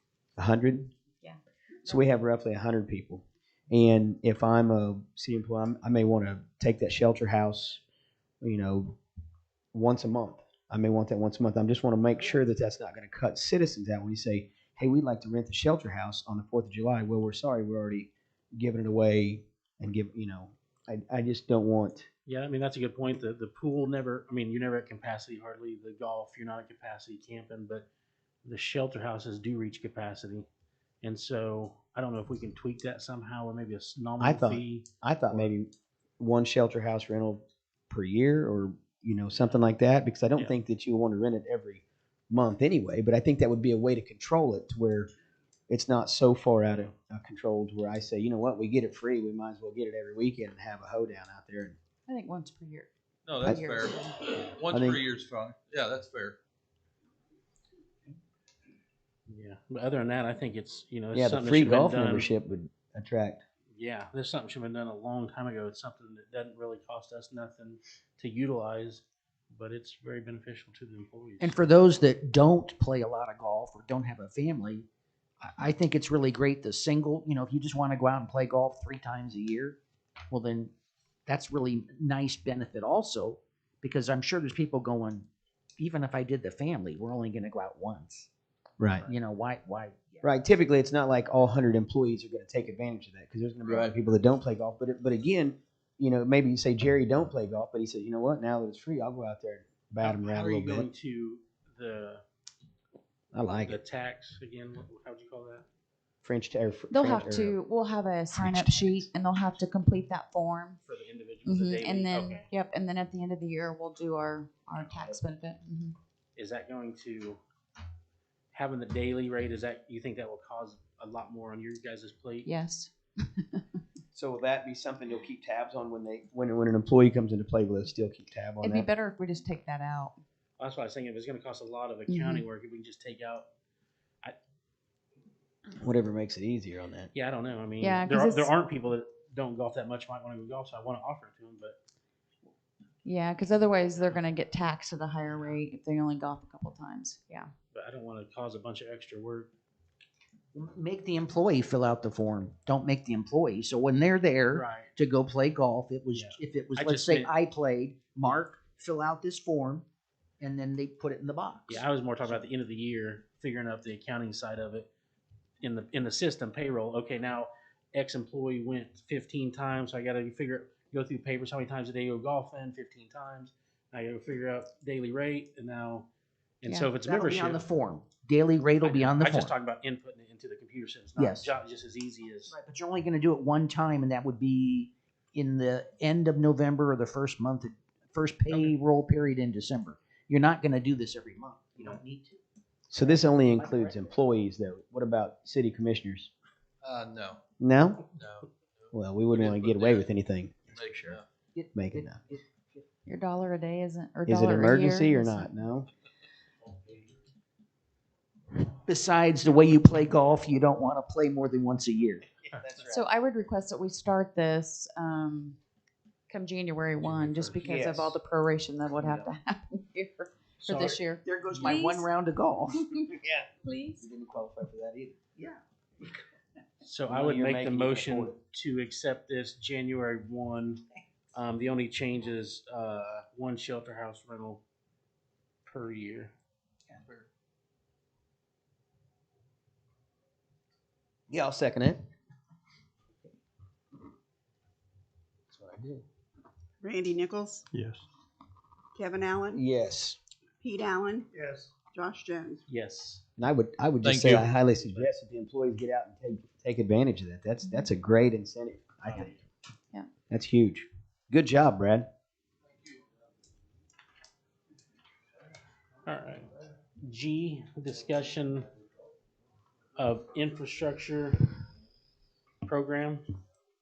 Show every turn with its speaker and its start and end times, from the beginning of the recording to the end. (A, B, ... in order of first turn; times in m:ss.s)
0:00.4-0:00.9 A
0:01.8-0:07.8 A
0:08.4-0:09.0 A
0:09.7-0:22.1 A
0:22.2-0:27.8 B
0:28.4-0:30.5 B
0:31.0-0:35.5 B
0:34.2-0:45.1 A
0:45.7-0:51.8 A
0:52.1-0:52.9 C
0:53.2-0:56.4 D
0:53.4-0:54.0 C
0:54.7-0:55.0 A
0:59.3-1:02.3 B
1:01.1-1:03.4 A
1:03.7-1:11.6 B
1:11.4-1:14.8 E
1:15.4-1:19.8 E
1:20.3-1:20.7 E
1:21.3-1:28.3 E
1:28.8-1:29.0 A
1:29.0-1:30.2 E
1:30.2-1:40.9 A
1:33.6-1:33.9 D
1:40.0-1:42.2 B
1:43.3-1:43.8 A
1:43.6-1:45.6 B
1:46.2-1:47.6 A
1:46.9-1:50.8 C
1:48.4-1:48.9 A
1:50.8-1:52.5 B
1:51.4-1:55.9 C
1:56.4-1:57.4 B
1:58.5-2:02.5 B
2:02.4-2:03.6 C
2:04.1-2:08.9 A
2:08.6-2:10.1 C
2:10.6-2:13.5 B
2:12.1-2:12.4 C
2:15.8-2:17.1 A
2:17.1-2:21.8 B
2:17.8-2:18.5 C
2:23.0-2:27.5 C
2:27.7-2:29.5 B
2:30.5-2:39.8 E
2:34.5-2:34.9 B
2:36.1-2:37.3 B
2:40.4-2:42.4 E
2:41.7-2:44.9 B
2:45.6-2:56.1 B
2:56.6-2:57.6 B
2:57.0-2:59.5 E
2:58.8-3:02.5 B
3:01.2-3:01.5 E
3:02.5-3:12.4 E
3:12.9-3:16.3 A
3:13.0-3:14.0 E
3:16.8-3:17.4 D
3:17.6-3:18.0 A
3:18.1-3:20.1 D
3:18.9-3:20.6 A
3:20.7-3:21.2 D
3:21.5-3:22.8 E
3:21.7-3:22.2 A
3:23.0-3:25.5 C
3:24.3-3:25.9 A
3:28.7-3:32.3 E
3:32.6-3:33.0 A
3:32.8-3:35.6 C
3:36.3-3:42.1 C
3:37.4-3:38.2 A
3:40.6-3:41.0 B
3:40.8-3:42.9 E
3:43.2-3:45.2 A
3:43.6-3:44.0 C
3:46.8-3:50.8 B
3:47.1-3:48.4 A
3:51.3-3:54.6 B
3:55.6-3:56.3 B
4:01.3-4:02.0 A
4:05.5-4:06.0 A
4:06.8-4:07.6 F
4:09.0-4:09.6 F
4:09.5-4:10.2 A
4:10.6-4:11.2 F
4:12.0-4:12.6 F
4:12.7-4:13.2 B
4:13.4-4:19.3 A
4:14.0-4:14.5 D
4:19.1-4:19.4 B
4:20.3-4:22.1 A
4:26.0-4:26.5 B
4:27.0-4:28.7 B
4:30.0-4:31.6 B
4:32.6-4:33.2 B